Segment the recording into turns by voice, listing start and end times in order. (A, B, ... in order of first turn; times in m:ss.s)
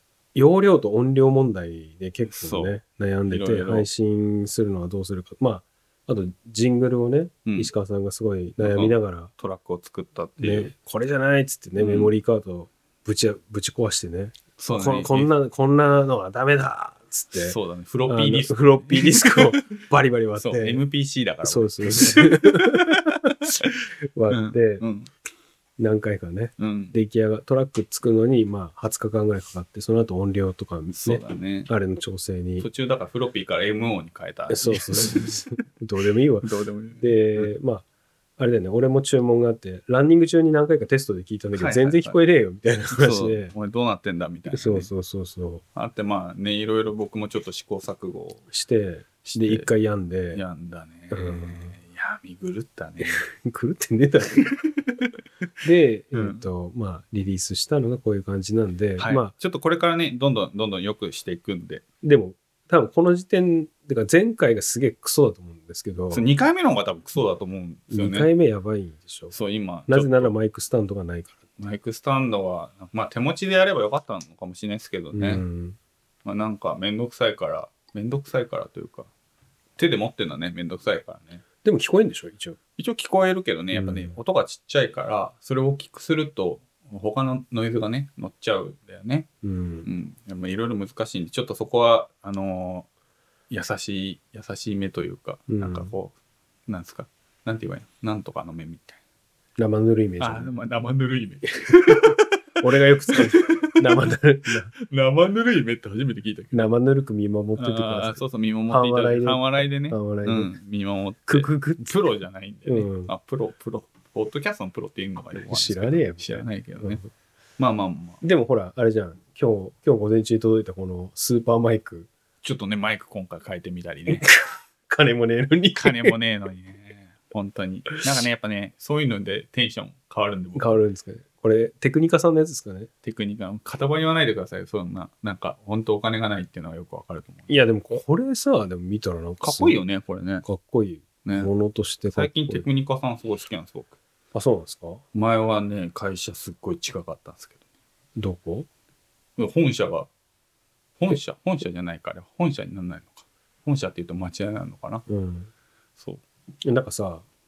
0:00.3-0:09.3 A
0:02.3-0:02.7 B
0:03.3-0:03.9 B
0:07.4-0:07.7 B
0:08.6-0:10.7 B
0:10.4-0:20.8 A
0:11.8-0:12.1 B
0:14.6-0:15.3 B
0:17.3-0:19.8 B
0:20.4-0:25.1 B
0:21.4-0:23.0 A
0:24.1-0:24.8 A
0:25.8-0:32.7 A
0:26.6-0:26.9 B
0:30.9-0:31.7 B
0:32.6-0:35.5 B
0:34.5-0:36.5 A
0:36.4-0:37.5 B
0:37.0-0:37.8 A
0:38.4-0:43.5 A
0:41.6-0:42.2 B
0:42.9-0:44.9 B
0:44.5-0:45.6 A
0:45.7-0:48.4 B
0:48.5-0:50.4 A
0:49.2-0:49.7 B
0:50.3-0:53.3 B
0:51.1-0:51.7 A
0:53.0-0:54.4 A
0:54.6-0:55.1 B
0:55.6-0:59.3 A
0:56.1-0:56.4 B
0:59.0-1:01.8 B
1:02.0-1:06.3 A
1:06.1-1:08.3 B
1:07.9-1:09.3 A
1:09.3-1:10.3 B
1:09.9-1:11.4 A
1:11.6-1:15.4 B
1:15.1-1:15.8 A
1:16.2-1:19.1 B
1:19.8-1:21.4 B
1:21.6-1:22.6 A
1:22.8-1:29.3 B
1:23.7-1:24.2 A
1:29.4-1:29.9 A
1:29.8-1:32.9 B
1:33.5-1:36.1 B
1:35.5-1:35.9 A
1:36.7-1:39.0 B
1:39.6-1:40.5 A
1:40.2-1:44.1 B
1:41.7-1:44.7 A
1:44.7-1:46.7 B
1:46.5-1:50.5 A
1:47.6-1:57.0 B
1:51.3-1:52.0 A
1:52.7-1:53.1 A
1:55.3-1:57.1 A
1:57.6-1:58.2 B
1:58.2-2:02.1 A
2:02.4-2:04.3 B
2:04.1-2:06.2 A
2:05.7-2:10.8 B
2:10.6-2:12.9 A
2:13.0-2:17.5 B
2:17.5-2:19.8 A
2:19.4-2:20.4 B
2:20.4-2:22.6 A
2:21.2-2:21.5 B
2:22.1-2:24.0 B
2:24.3-2:25.0 A
2:25.1-2:27.6 B
2:28.2-2:28.7 A
2:29.4-2:30.1 B
2:31.0-2:35.0 B
2:35.1-2:35.5 A
2:36.6-2:37.2 A